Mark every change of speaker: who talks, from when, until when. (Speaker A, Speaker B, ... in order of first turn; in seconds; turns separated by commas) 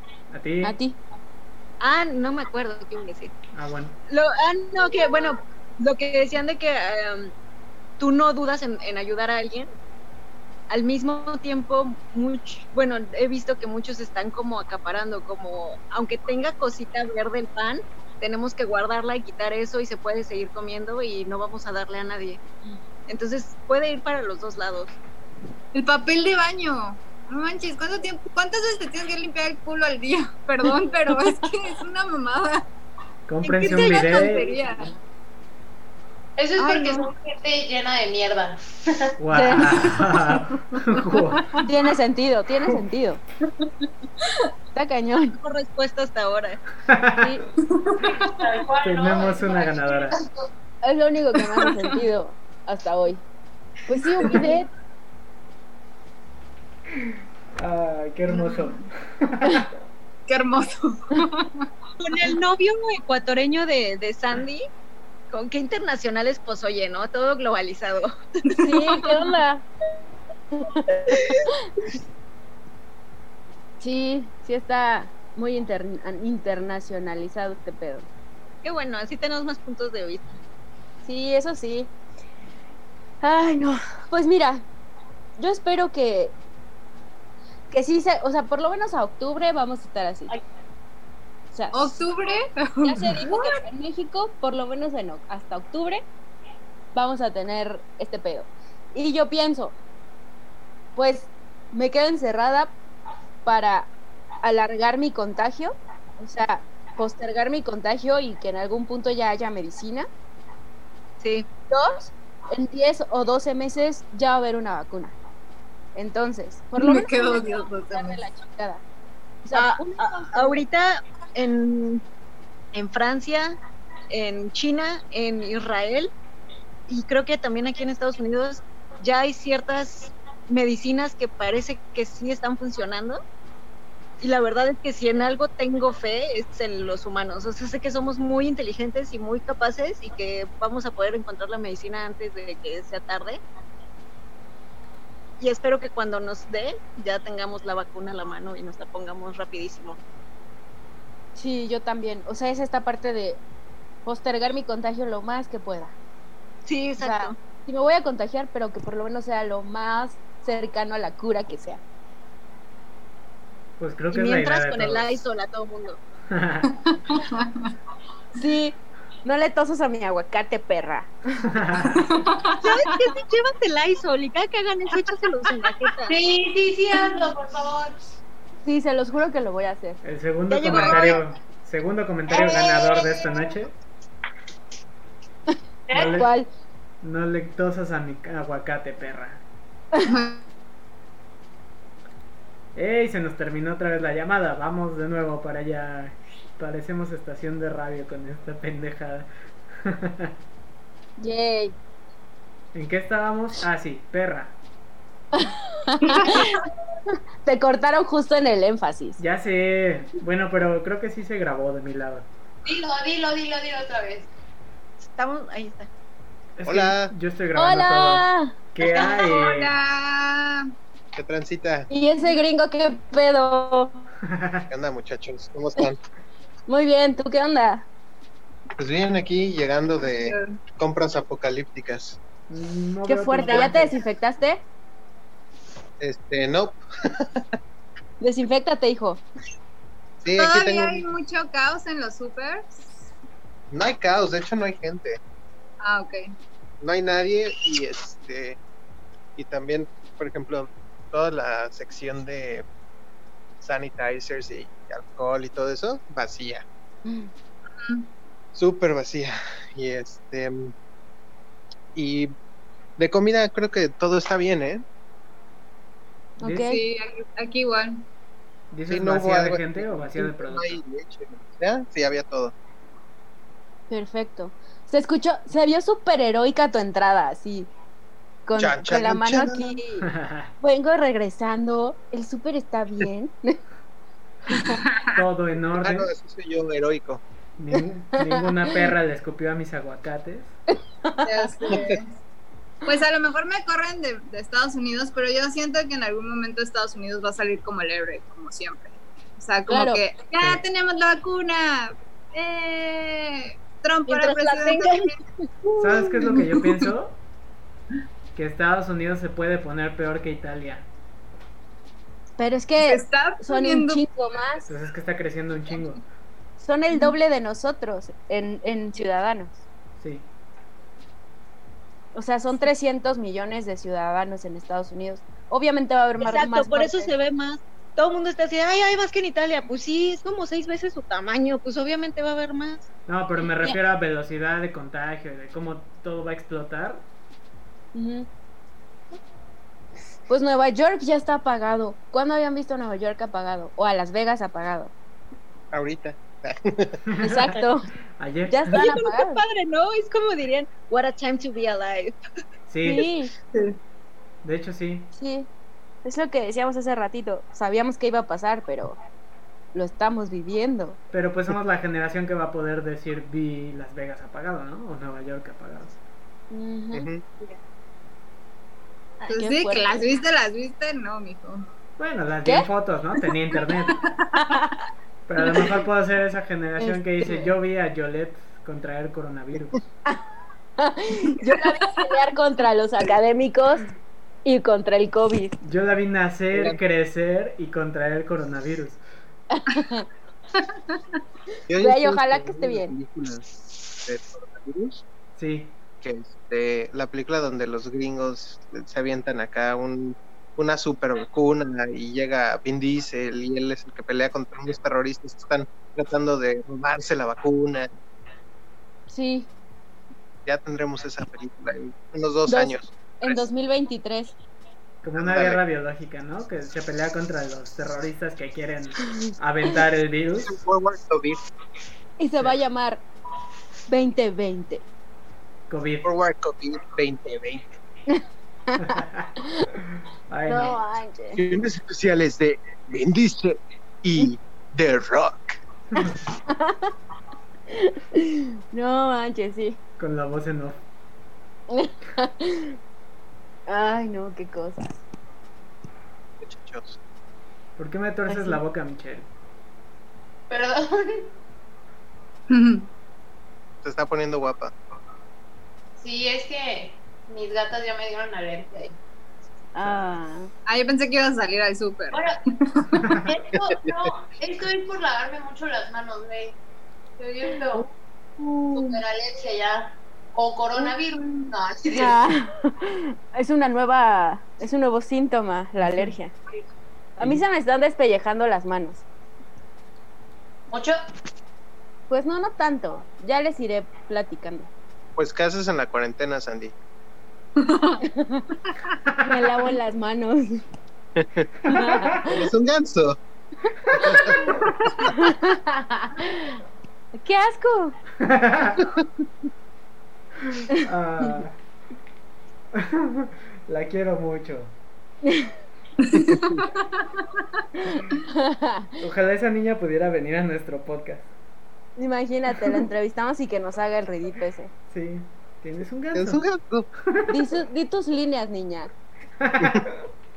Speaker A: 0.3-0.8, Speaker B: 0.6-1.0, Speaker C: 1.8-3.3, Speaker A: 3.5-4.0, Speaker C: 4.1-7.3, Speaker C: 8.0-9.7, Speaker C: 10.7-22.4, Speaker C: 23.1-24.9, Speaker D: 25.7-32.6, Speaker A: 33.3-34.5, Speaker C: 33.4-34.5, Speaker D: 33.7-34.9, Speaker E: 36.4-39.1, Speaker D: 36.6-37.1, Speaker A: 39.2-41.6, Speaker B: 39.3-39.9, Speaker B: 41.6-43.2, Speaker B: 44.7-45.4, Speaker C: 45.4-46.6, Speaker A: 46.9-47.3, Speaker D: 47.7-48.0, Speaker E: 47.9-50.5, Speaker A: 48.8-50.2, Speaker B: 50.8-53.2, Speaker D: 51.6-51.9, Speaker B: 53.9-54.7, Speaker D: 54.2-54.5, Speaker A: 57.6-59.7, Speaker D: 58.3-58.8, Speaker D: 60.3-61.7, Speaker C: 62.0-64.6, Speaker C: 65.3-68.1, Speaker D: 68.5-69.3, Speaker B: 68.6-69.7, Speaker B: 70.5-70.8, Speaker C: 70.9-71.5, Speaker B: 73.8-78.1, Speaker C: 78.6-80.2, Speaker B: 81.0-81.9, Speaker B: 83.2-84.6, Speaker B: 85.4-86.3, Speaker B: 87.7-90.3, Speaker B: 91.5-92.0, Speaker D: 91.7-93.6, Speaker B: 92.8-96.0, Speaker B: 96.9-99.8, Speaker B: 101.0-102.7, Speaker B: 103.4-103.9, Speaker B: 104.4-110.1, Speaker C: 111.2-111.5, Speaker B: 111.7-115.2, Speaker B: 115.9-118.8, Speaker D: 116.8-118.2, Speaker B: 119.4-120.6, Speaker C: 119.5-122.0, Speaker C: 122.7-123.5, Speaker C: 124.1-126.1, Speaker C: 126.9-133.2, Speaker C: 134.2-143.4, Speaker C: 145.4-150.0, Speaker B: 151.3-153.4, Speaker B: 154.0-155.9, Speaker C: 156.6-157.4, Speaker B: 157.0-161.8, Speaker A: 163.8-165.1, Speaker C: 164.1-166.0, Speaker A: 166.3-166.7, Speaker D: 166.7-167.7, Speaker B: 168.3-171.6, Speaker A: 171.6-171.9, Speaker D: 171.8-173.0, Speaker C: 172.6-176.2, Speaker E: 176.1-177.9, Speaker B: 178.6-180.0, Speaker A: 180.0-183.7, Speaker C: 180.5-181.2, Speaker D: 180.7-181.2, Speaker E: 182.3-183.5, Speaker E: 185.9-186.3, Speaker A: 185.9-186.3, Speaker B: 186.1-186.5, Speaker A: 187.0-189.4, Speaker D: 190.0-190.4, Speaker A: 192.7-199.3, Speaker A: 199.8-200.3, Speaker B: 201.2-201.7, Speaker A: 202.7-204.5, Speaker B: 205.3-206.5, Speaker E: 206.0-206.7, Speaker B: 207.4-209.2, Speaker A: 209.2-212.2, Speaker E: 212.7-214.3, Speaker C: 215.2-215.9, Speaker A: 216.6-219.7, Speaker F: 216.7-217.1, Speaker B: 217.5-218.5, Speaker D: 218.9-220.7, Speaker F: 221.1-221.9, Speaker B: 221.9-224.0, Speaker A: 224.3-224.6, Speaker F: 224.7-226.0, Speaker B: 226.7-227.9, Speaker F: 228.8-232.2, Speaker D: 230.2-230.6, Speaker A: 232.5-233.9, Speaker B: 233.1-234.6, Speaker F: 236.0-236.8, Speaker B: 238.2-239.2, Speaker F: 240.2-241.1, Speaker D: 240.3-242.9, Speaker F: 243.7-245.2, Speaker D: 245.8-246.3, Speaker F: 246.8-248.6, Speaker F: 249.3-252.7, Speaker F: 253.6-256.6, Speaker B: 257.0-257.3, Speaker D: 257.8-258.1, Speaker F: 258.5-260.7, Speaker F: 261.9-262.3, Speaker F: 263.0-264.8, Speaker A: 266.4-266.7, Speaker B: 266.4-266.8, Speaker D: 266.7-268.0, Speaker A: 268.7-270.8, Speaker F: 268.9-272.5, Speaker B: 273.9-277.7, Speaker B: 278.5-280.1, Speaker F: 278.6-279.7, Speaker A: 280.0-280.5, Speaker B: 280.6-283.6, Speaker D: 284.7-285.1, Speaker A: 285.1-286.1, Speaker F: 285.8-287.2, Speaker A: 287.6-290.5, Speaker B: 290.7-291.9, Speaker D: 291.2-292.1, Speaker F: 291.7-292.0, Speaker D: 292.8-305.1, Speaker B: 299.7-300.0, Speaker A: 300.4-300.6, Speaker B: 304.1-304.9, Speaker C: 304.1-305.0, Speaker A: 305.8-307.2, Speaker A: 308.3-310.9, Speaker B: 312.4-314.7, Speaker D: 312.8-314.0, Speaker A: 314.7-316.0, Speaker B: 316.6-319.6, Speaker A: 320.0-320.3, Speaker B: 322.1-327.1, Speaker C: 326.2-332.9, Speaker A: 333.1-337.0, Speaker B: 337.9-338.3, Speaker B: 340.3-344.9, Speaker F: 345.7-347.0, Speaker A: 347.1-347.5, Speaker B: 347.2-347.9, Speaker A: 348.2-348.6, Speaker B: 348.5-349.4, Speaker C: 348.7-352.2, Speaker A: 352.7-353.0, Speaker B: 352.8-353.3, Speaker A: 354.4-355.1, Speaker B: 355.1-355.5, Speaker B: 356.0-359.0, Speaker B: 359.7-361.0, Speaker A: 361.1-365.9, Speaker B: 366.5-367.1, Speaker F: 366.9-367.2, Speaker B: 369.2-370.0, Speaker D: 369.3-371.6, Speaker A: 372.0-374.0, Speaker D: 374.0-374.6, Speaker B: 374.5-374.8, Speaker A: 375.2-379.8, Speaker B: 376.8-377.5, Speaker B: 380.8-383.9, Speaker B: 384.4-385.6, Speaker A: 385.6-389.0, Speaker B: 389.5-390.1, Speaker F: 391.7-395.0, Speaker B: 391.8-392.9, Speaker A: 395.4-395.7, Speaker F: 396.0-407.9, Speaker B: 409.1-409.5, Speaker F: 410.4-413.4, Speaker B: 412.5-414.3, Speaker A: 415.0-420.6, Speaker F: 415.2-415.6, Speaker F: 420.4-421.4, Speaker B: 422.2-423.0, Speaker B: 423.9-424.8, Speaker A: 425.7-426.1, Speaker F: 426.0-427.7, Speaker B: 428.1-429.0, Speaker A: 428.8-430.8, Speaker B: 430.5-431.4, Speaker F: 431.3-435.6, Speaker B: 436.5-436.9, Speaker B: 437.7-439.8, Speaker A: 440.0-440.8, Speaker B: 441.7-442.8, Speaker B: 443.7-445.0, Speaker F: 446.4-447.0, Speaker A: 447.8-449.3, Speaker B: 448.3-448.6, Speaker E: 450.5-451.3, Speaker D: 452.5-452.9, Speaker F: 453.8-454.7, Speaker E: 456.0-458.9, Speaker B: 459.7-460.5, Speaker A: 459.8-460.2, Speaker D: 460.7-463.1, Speaker E: 463.2-466.6, Speaker E: 467.2-467.9, Speaker B: 467.5-467.9, Speaker B: 468.4-468.9, Speaker E: 468.7-472.2, Speaker B: 471.9-476.3, Speaker B: 477.2-479.0, Speaker E: 480.7-481.0, Speaker B: 482.1-484.7, Speaker F: 485.1-486.7, Speaker D: 487.6-488.0, Speaker B: 488.0-488.4, Speaker B: 489.2-490.6, Speaker F: 491.1-491.5, Speaker A: 491.6-492.2, Speaker B: 491.7-492.5, Speaker F: 492.3-493.2, Speaker B: 493.9-494.5, Speaker F: 494.0-494.4, Speaker D: 494.5-495.0, Speaker B: 495.1-496.6, Speaker B: 497.1-498.0, Speaker A: 498.2-498.9, Speaker B: 500.7-501.3, Speaker A: 500.8-501.6, Speaker A: 502.7-504.7, Speaker B: 505.2-505.5, Speaker D: 506.0-507.4, Speaker B: 507.8-508.9, Speaker A: 509.0-511.3, Speaker B: 512.0-514.7, Speaker A: 514.9-516.4, Speaker F: 516.1-516.9, Speaker B: 517.3-518.9, Speaker A: 519.4-520.0